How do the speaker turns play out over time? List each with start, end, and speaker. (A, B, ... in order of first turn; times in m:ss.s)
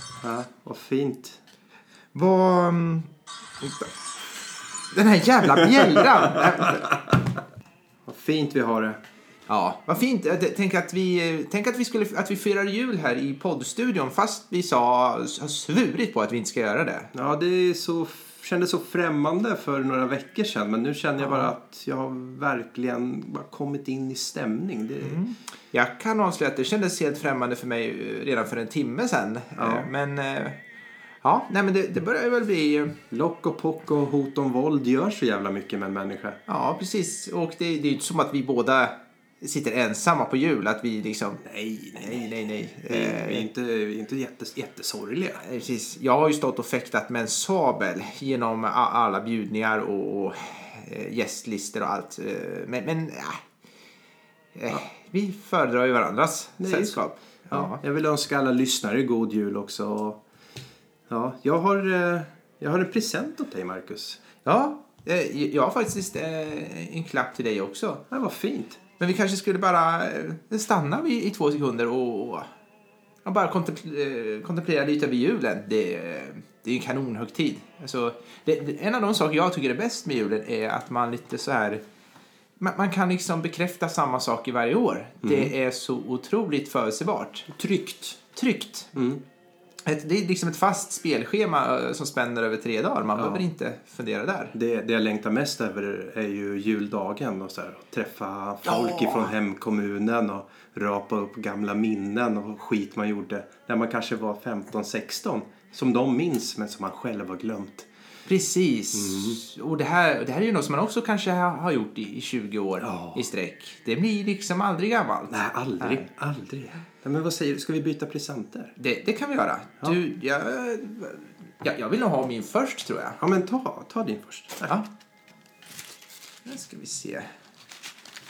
0:00.2-0:01.4 A
0:02.1-0:03.9 B
0:04.9-0:07.1 B
0:08.0-0:09.0 A
0:09.5-0:17.1 B
0:17.1-0:25.2 A
0:21.2-0:21.5 B
0:25.0-0:30.6 B
0:29.6-0:29.9 A
0:31.2-0:33.0 B
0:33.1-0:36.4 A
0:36.5-0:41.4 B
0:41.4-0:45.4 A
0:41.9-0:43.5 B
0:45.4-0:53.4 B
0:54.6-0:57.8 B
0:56.6-1:00.2 A
1:01.1-1:04.2 A
1:04.4-1:08.0 B
1:08.1-1:08.8 A
1:09.0-1:12.5 B
1:13.2-1:21.8 B
1:22.6-1:27.5 B
1:25.2-1:25.5 A
1:27.5-1:28.2 A
1:28.3-1:29.0 B
1:29.0-1:29.2 A
1:29.8-1:34.6 B
1:33.2-1:33.4 A
1:34.5-1:47.9 A
1:38.7-1:39.3 B
1:48.3-1:56.1 B
1:48.9-1:49.4 A
1:52.8-1:53.2 A
1:55.3-1:58.7 A
1:58.8-2:03.2 B
2:03.2-2:04.8 A
2:06.4-2:07.3 B